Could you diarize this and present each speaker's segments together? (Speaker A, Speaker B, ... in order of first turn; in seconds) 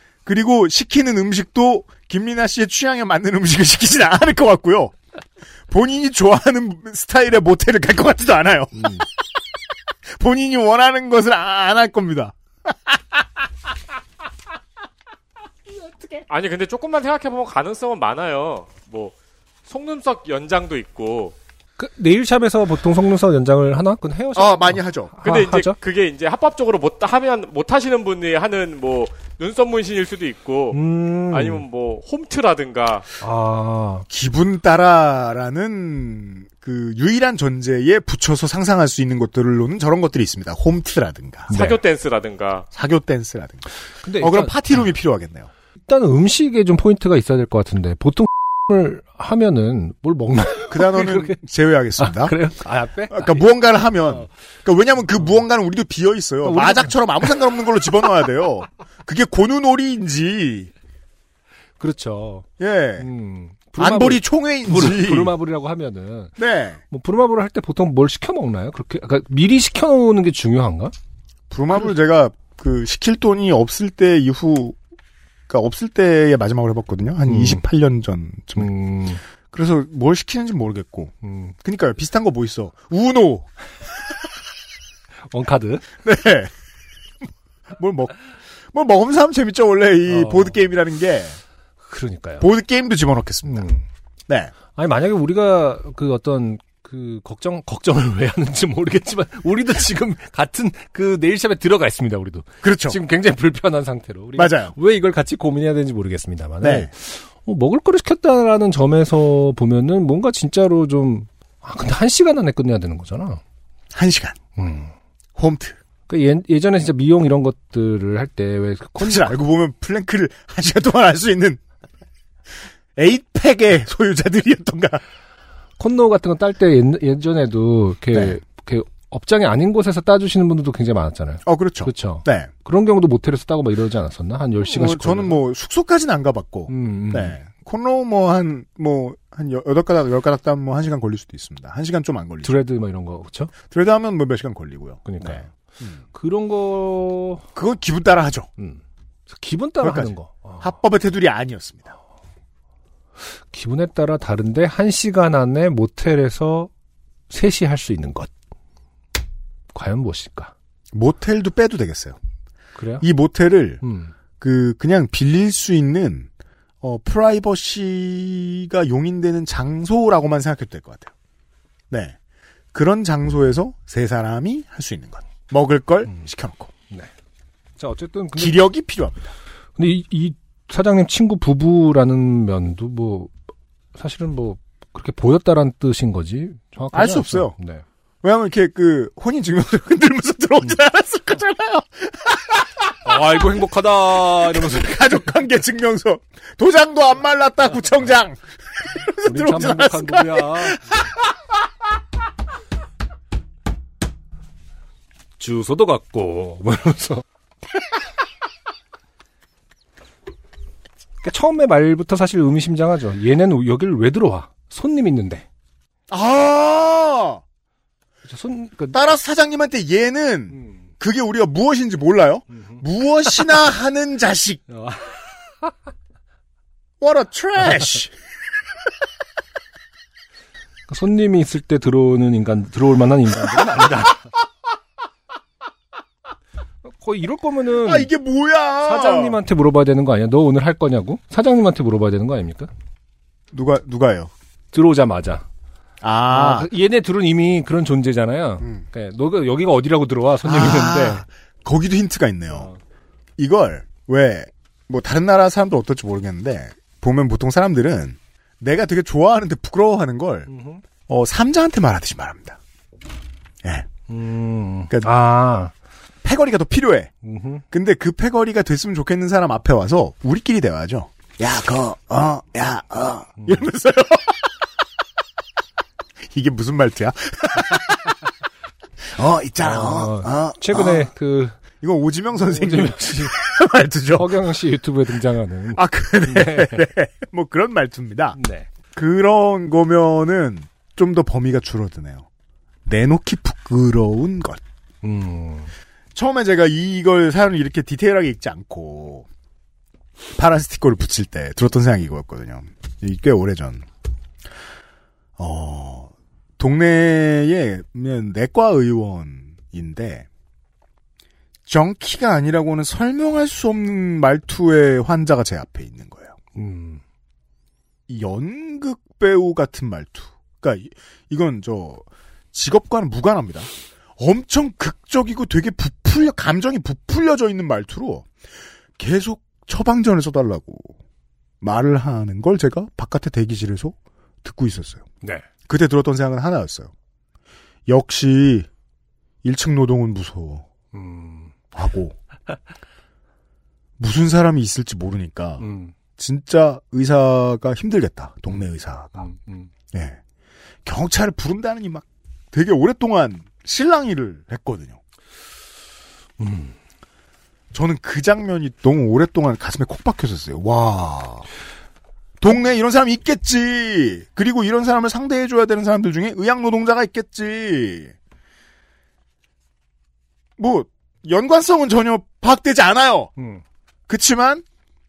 Speaker A: 0.2-4.9, 5.7-9.0, 10.1-13.0, 24.3-25.1, 34.1-41.5, 42.7-43.7, 44.2-45.5, 50.7-52.3, 53.1-60.7, 62.6-63.0, 63.8-65.3, 66.4-66.8, 71.5-74.8, 75.5-78.7, 79.5-83.5, 86.0-86.5, 87.7-88.1, 88.7-91.4, 92.4-93.7, 102.6-103.0, 104.4-104.7, 106.6-106.9, 113.9-114.4, 115.3-115.8, 119.0-121.6, 123.0-125.0, 131.4-132.5, 134.6-142.6, 143.7-146.0, 147.5-148.5, 149.8-151.9, 160.9-162.2, 163.0-163.8, 164.4-166.3, 166.8-171.1, 172.7-176.7, 178.3-179.3, 186.9-187.5, 188.2-192.7, 194.2-201.1, 216.1-217.4, 218.9-224.6, 227.0-228.1, 237.8-239.4, 243.5-244.3, 246.0-246.7, 250.4-252.7, 253.4-260.5, 261.1-262.6, 263.6-263.9, 266.2-267.1, 267.7-274.5, 276.3-278.1, 279.1-281.1, 281.8-284.5, 285.7-288.4, 288.9-292.3, 292.9-294.6, 296.1-299.3, 300.4-303.9, 305.4-310.2, 311.6-316.3, 318.1-328.3, 329.0-330.9, 331.6-335.0, 335.7-336.9, 337.9-338.7, 339.4-340.7, 341.7-342.1, 344.0-345.6, 346.2-349.2, 349.9-350.2, 350.8-355.0, 357.7-361.4, 362.4-368.1, 370.6-373.3, 374.1-374.6
Speaker B: 16.3-19.1, 19.7-21.4, 25.2-30.8, 31.3-33.1, 41.5-42.7
Speaker C: 21.8-25.8, 30.7-31.6, 33.2-34.1, 41.5-41.8, 44.0-44.6, 45.9-51.4, 52.0-53.5, 56.4-57.4, 61.8-62.4, 63.0-66.3, 66.9-70.9, 77.3-77.6, 78.6-79.2, 81.2-81.5, 85.3-85.8, 90.1-90.5, 91.8-92.5, 93.5-93.8, 94.7-113.4, 114.6-114.9, 116.1-119.3, 125.8-135.4, 136.7-137.3, 142.4-143.5, 145.0-145.5, 146.1-147.4, 148.6-150.7, 153.5-156.7, 157.3-158.3, 159.7-160.5, 162.8-163.0, 163.8-164.1, 177.8-178.7, 179.8-183.3, 183.9-187.8, 193.0-195.3, 199.2-200.8, 205.4-207.2, 211.2-215.4, 218.2-219.0, 222.6-222.8, 224.7-225.1, 230.9-234.2, 236.9-238.1, 238.8-242.7, 244.7-245.4, 246.3-251.2, 260.5-260.8, 264.1-265.7, 267.2-267.6, 273.4-273.6, 279.6-281.6, 282.4-283.3, 284.1-286.8, 288.3-288.7, 295.0-295.7, 316.5-317.0, 335.2-335.5, 340.9-341.5, 345.6-345.9, 349.1-349.7, 356.4-356.7, 373.4-373.6